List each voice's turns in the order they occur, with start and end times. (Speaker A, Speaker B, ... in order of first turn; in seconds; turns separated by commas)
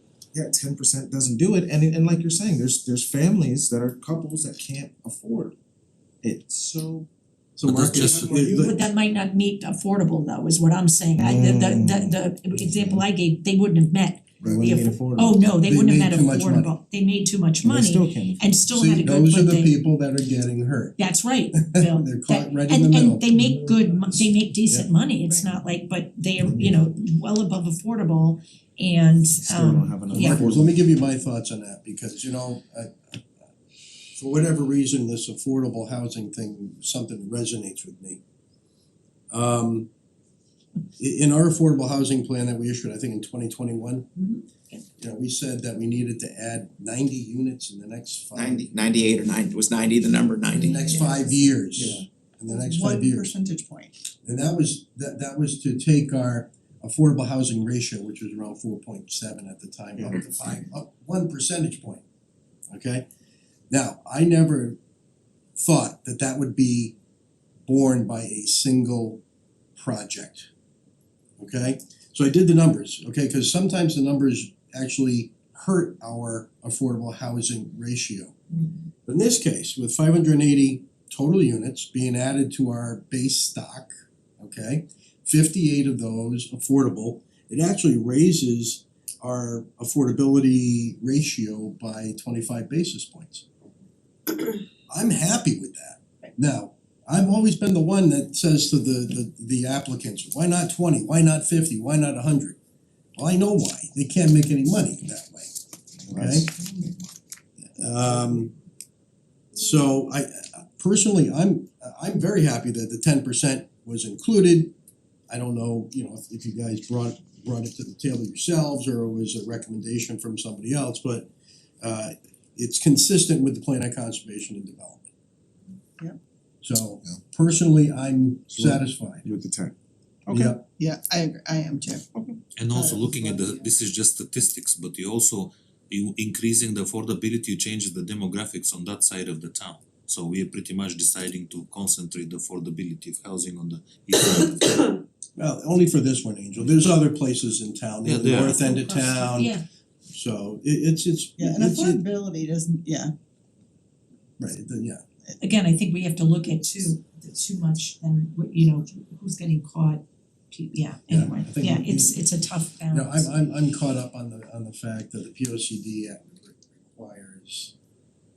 Speaker A: 0.3-5.6, Speaker A: 6.2-7.1, Speaker B: 7.6-8.8, Speaker C: 7.7-8.4, Speaker A: 7.9-8.8, Speaker D: 8.5-19.8, Speaker A: 11.2-13.0, Speaker A: 14.4-15.6, Speaker B: 15.7-16.7, Speaker A: 17.6-18.7, Speaker B: 18.7-21.0, Speaker D: 21.0-30.5, Speaker B: 21.6-23.8, Speaker A: 26.4-26.9, Speaker A: 29.4-30.8, Speaker B: 30.1-33.5, Speaker B: 34.1-38.2, Speaker B: 39.3-39.9, Speaker B: 41.0-44.1, Speaker D: 44.2-44.8, Speaker B: 45.0-48.7, Speaker E: 48.4-52.0, Speaker B: 50.6-53.3, Speaker D: 50.8-51.2, Speaker F: 52.5-54.0, Speaker B: 54.2-62.0, Speaker B: 62.7-63.1, Speaker B: 63.7-64.8, Speaker B: 65.6-67.0, Speaker B: 67.7-69.2, Speaker B: 69.8-70.5, Speaker B: 71.4-78.4, Speaker B: 79.1-93.5, Speaker B: 94.9-102.6, Speaker B: 103.2-105.5, Speaker A: 106.0-107.8, Speaker B: 106.1-106.5, Speaker B: 107.8-108.5, Speaker B: 109.5-114.7, Speaker B: 115.3-121.3, Speaker B: 121.8-125.0, Speaker B: 126.6-129.3, Speaker A: 128.5-129.7, Speaker A: 130.3-130.6, Speaker B: 130.3-130.6, Speaker F: 130.7-133.6, Speaker C: 132.6-144.9, Speaker B: 145.4-149.6, Speaker C: 148.0-148.7, Speaker D: 148.5-149.7, Speaker B: 150.1-152.0, Speaker F: 151.4-153.1, Speaker B: 154.4-155.0, Speaker D: 155.4-163.4, Speaker B: 161.1-162.2, Speaker B: 162.9-167.7